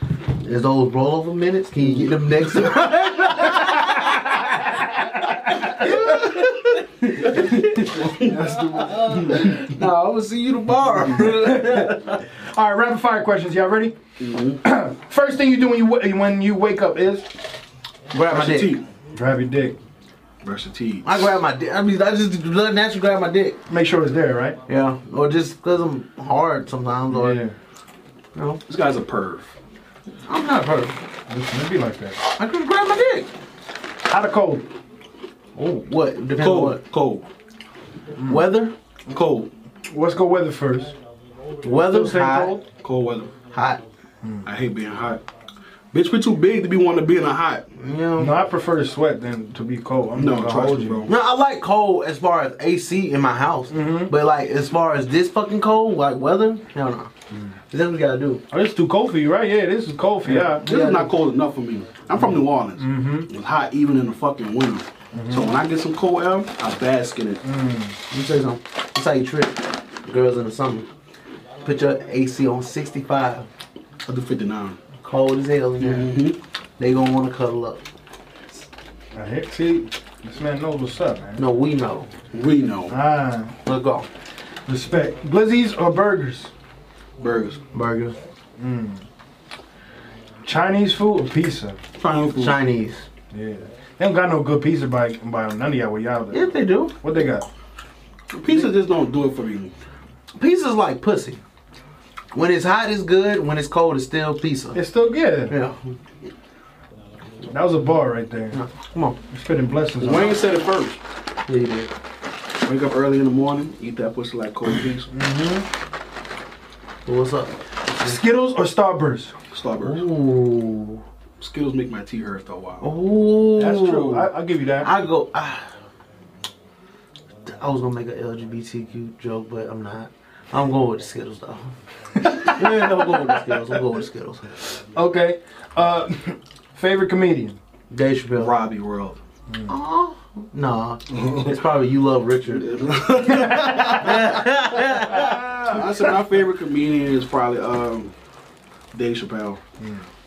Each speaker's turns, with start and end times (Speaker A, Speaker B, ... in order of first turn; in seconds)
Speaker A: 0.4-12.2, 18.1-18.8, 21.0-23.6, 24.7-27.4, 28.4-28.6, 30.3-31.0, 32.4-33.3, 35.5-36.8, 38.3-38.7, 41.6-42.6, 43.5-43.8, 47.8-48.4, 51.1-57.1, 57.7-58.4, 60.6-61.1, 68.1-70.9, 71.6-73.5, 75.0-76.2, 76.8-77.8, 81.4-82.1, 83.7-84.1, 87.7-88.2, 92.3-93.1, 96.3-97.0, 100.4-101.4, 102.3-104.8, 105.5-105.9, 108.5-109.2, 111.5-111.9, 117.1-118.2, 119.8-121.0, 122.8-125.7, 127.5-131.7, 132.2-134.5, 137.9-138.6, 139.7-145.4
Speaker B: 2.7-6.3, 7.3-9.5, 11.2-14.0, 14.6-17.3, 19.1-19.8, 23.7-24.6, 27.1-27.6, 31.3-32.2, 34.0-34.7, 38.2-38.5, 39.9-40.9, 41.8-42.6, 48.2-51.1, 53.7-54.1, 58.5-60.7, 62.2-63.3, 65.1-65.5, 67.4-68.0, 79.1-81.4, 82.9-83.5, 84.7-86.5, 88.6-89.0, 90.5-91.8, 93.3-97.5, 104.7-105.5, 107.4-108.6, 109.3-110.4, 115.1-115.7, 118.0-119.3, 123.6-124.9, 132.2-133.8, 134.8-137.6, 139.5-139.7, 143.2-146.1, 149.8-150.1
Speaker C: 14.2-14.6, 18.3-18.9, 20.4-21.3, 28.7-29.5, 36.4-37.3, 39.1-39.5, 42.8-43.3, 44.5-45.2, 45.9-47.7, 50.2-51.1, 60.3-67.4, 74.1-74.8, 75.8-76.4, 82.3-83.0, 87.2-87.6, 92.0-92.6, 98.3-99.7, 110.0-111.0, 112.6-115.1, 119.5-120.1, 121.4-122.9, 138.4-139.2, 141.1-141.5, 142.5-144.4, 145.1-148.1, 148.9-149.6